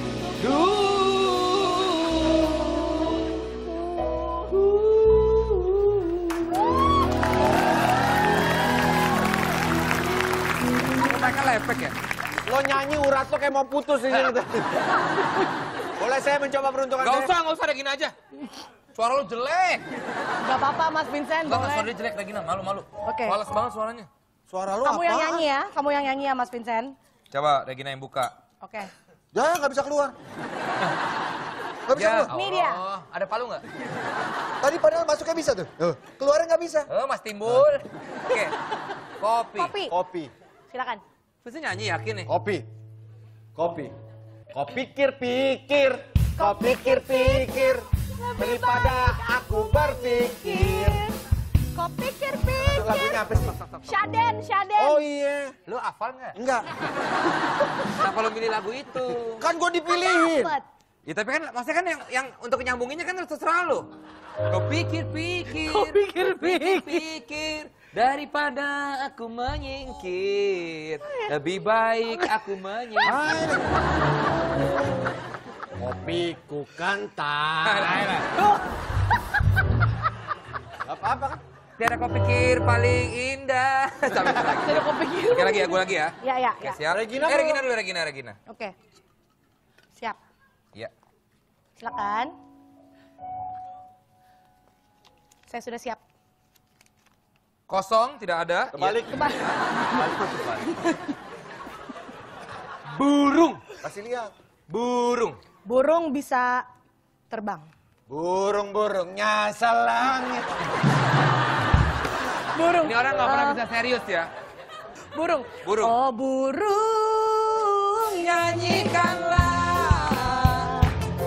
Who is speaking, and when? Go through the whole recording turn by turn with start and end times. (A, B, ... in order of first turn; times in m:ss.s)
0:00.4-0:03.1 A
0:04.5-0:06.0 A
0:11.0-0:12.0 A
0:12.4-0:14.8 B
0:16.0-0:17.3 B
0:17.0-0:18.1 A
0:18.9-0:19.8 A
0:20.4-0:21.9 C
0:21.5-0:24.1 A
0:23.0-0:23.4 C
0:24.5-0:25.5 B
0:24.8-0:26.9 C
0:27.3-0:28.3 A
0:28.6-0:28.9 C
0:29.3-0:30.2 B
0:31.9-0:32.3 B
0:31.9-0:33.6 A
0:32.3-0:32.8 C
0:34.6-0:36.9 B
0:36.9-0:38.6 A
0:39.2-0:39.7 A
0:39.6-0:39.9 C
0:39.9-0:40.3 B
0:40.7-0:41.0 C
0:41.4-0:42.3 A
0:42.3-0:42.7 B
0:43.6-0:43.9 B
0:44.5-0:47.8 B
0:46.4-0:51.2 C
0:48.4-0:51.0 B
0:51.7-0:53.2 C
0:52.7-0:53.6 B
0:53.8-0:55.0 C
0:54.8-0:55.6 B
0:55.7-0:56.4 A
0:56.3-0:56.7 B
0:58.0-0:59.4 A
0:59.4-1:00.5 B
0:59.9-1:00.7 C
1:01.1-1:03.9 A
1:04.5-1:13.4 A
1:05.5-1:07.0 C
1:11.1-1:11.3 C
1:13.0-1:13.6 B
1:15.8-1:18.2 B
1:17.6-1:18.3 A
1:20.8-1:21.4 B
1:21.8-1:28.4 A
1:24.5-1:26.8 C
1:26.9-1:27.6 B
1:28.5-1:28.8 C
1:31.8-1:32.3 C
1:35.5-1:36.0 C
1:37.7-1:39.0 A
1:38.7-1:40.5 B
1:39.1-1:40.0 C
1:39.9-1:40.6 A
1:42.9-1:43.6 A
1:43.8-1:44.3 B
1:44.7-1:45.4 A
1:45.6-1:46.7 C
1:47.3-1:47.7 C
1:48.1-1:50.6 B
1:52.4-1:53.6 C
1:52.8-1:54.3 A
1:55.1-1:59.1 C
1:55.6-1:55.9 A
1:58.0-2:00.7 A
2:00.4-2:00.9 C